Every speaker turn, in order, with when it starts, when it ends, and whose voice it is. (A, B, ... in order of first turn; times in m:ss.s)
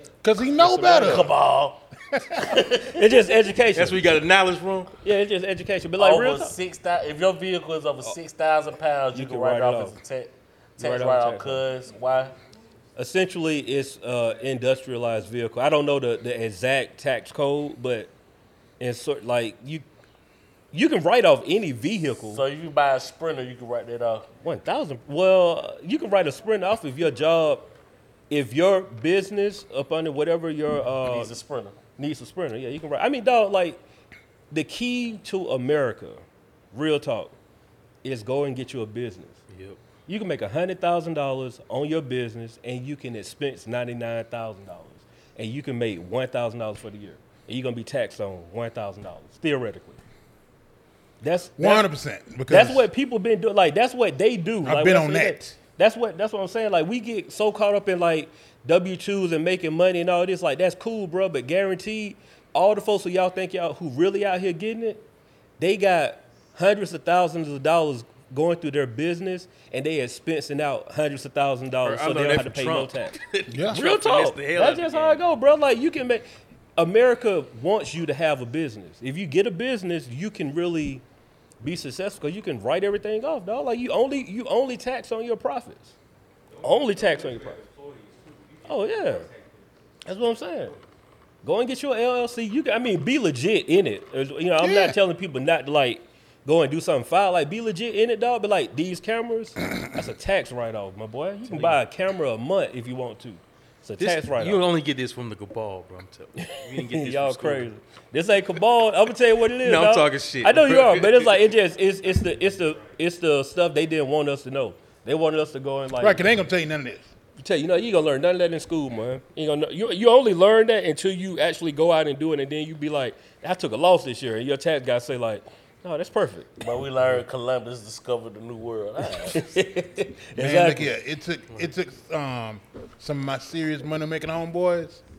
0:00.2-0:01.3 A
0:00.6-0:01.3 B
0:00.8-0:01.8 C
0:02.1-0:02.5 A
0:02.4-0:03.2 C
0:02.8-0:04.0 B
0:03.7-0:04.9 D
0:05.0-0:06.6 B
0:06.0-0:12.4 C
0:09.1-0:10.0 B
0:10.8-0:11.6 B
0:13.0-0:18.1 B
0:18.8-0:19.9 B
0:20.7-0:22.4 B
0:22.3-0:24.3 C
0:24.4-0:27.7 B
0:28.3-0:31.3 B
0:31.0-0:31.8 C
0:32.0-0:33.8 B
0:34.5-0:37.4 B
0:38.0-0:39.4 B
0:39.5-0:39.8 D
0:40.1-0:50.0 B
0:51.2-0:51.9 B
0:51.6-0:52.9 A
0:52.5-1:05.0 B
0:54.6-0:55.6 A
1:05.6-1:13.2 B
1:11.8-1:15.2 D
1:13.5-1:13.8 A
1:13.7-1:16.3 B
1:16.8-1:21.0 B
1:21.6-1:26.0 B
1:26.6-1:29.6 D
1:26.6-1:27.6 B
1:28.6-1:29.3 B
1:30.1-1:30.8 B
1:31.4-1:44.6 B
1:34.6-1:35.0 A
1:41.5-1:41.8 D
1:44.0-1:47.7 D
1:46.4-1:56.2 B
1:49.6-1:51.4 D
1:56.0-1:57.1 A
1:57.4-2:06.6 B
2:06.6-2:09.5 C
2:09.2-2:10.9 B
2:10.4-2:15.0 A